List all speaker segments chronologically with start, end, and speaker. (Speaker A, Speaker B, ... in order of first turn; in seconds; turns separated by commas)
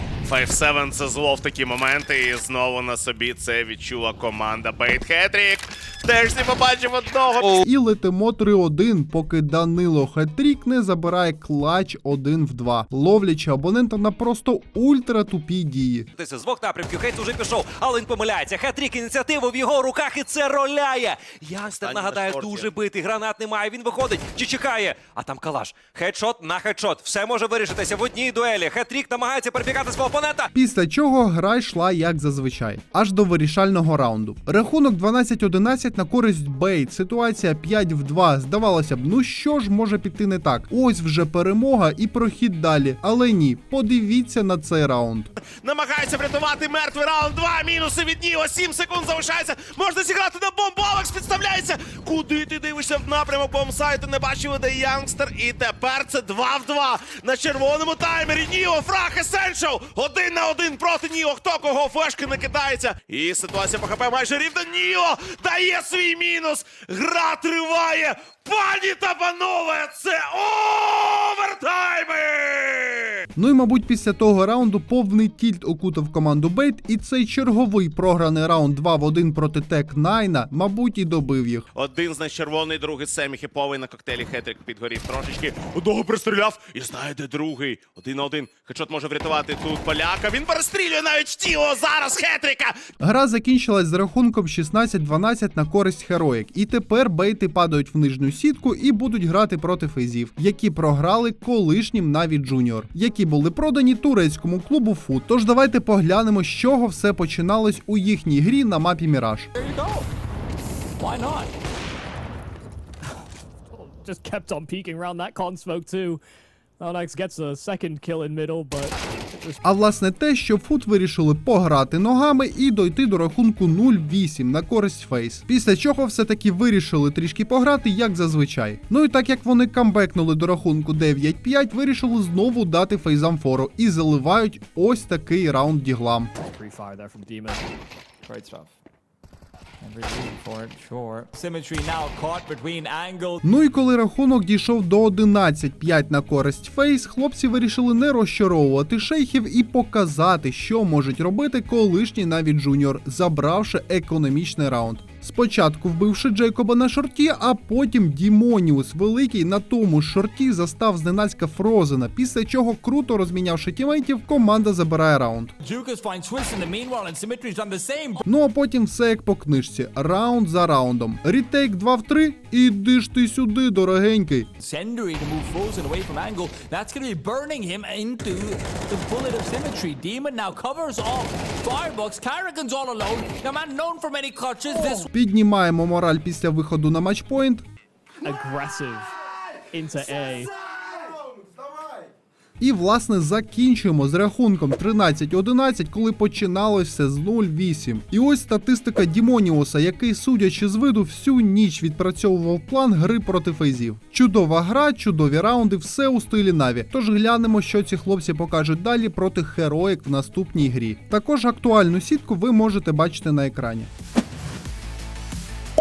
Speaker A: 0.2-7.6, Speaker B: 7.5-16.1, Speaker C: 16.1-30.5, Speaker A: 21.8-22.7, Speaker B: 30.5-45.3, Speaker A: 45.4-73.2, Speaker B: 73.3-81.7, Speaker A: 81.7-92.7, Speaker B: 93.0-109.5, Speaker D: 109.5-110.1, Speaker D: 111.0-111.5, Speaker E: 113.7-116.2, Speaker E: 116.8-119.6, Speaker B: 119.6-136.3, Speaker E: 136.4-137.7, Speaker D: 138.2-138.7, Speaker D: 139.8-143.4, Speaker B: 143.4-165.5, Speaker D: 165.6-168.2, Speaker B: 168.2-174.5, Speaker D: 174.6-185.1, Speaker B: 185.0-187.7, Speaker E: 188.2-189.1, Speaker E: 189.7-190.5, Speaker B: 192.6-213.9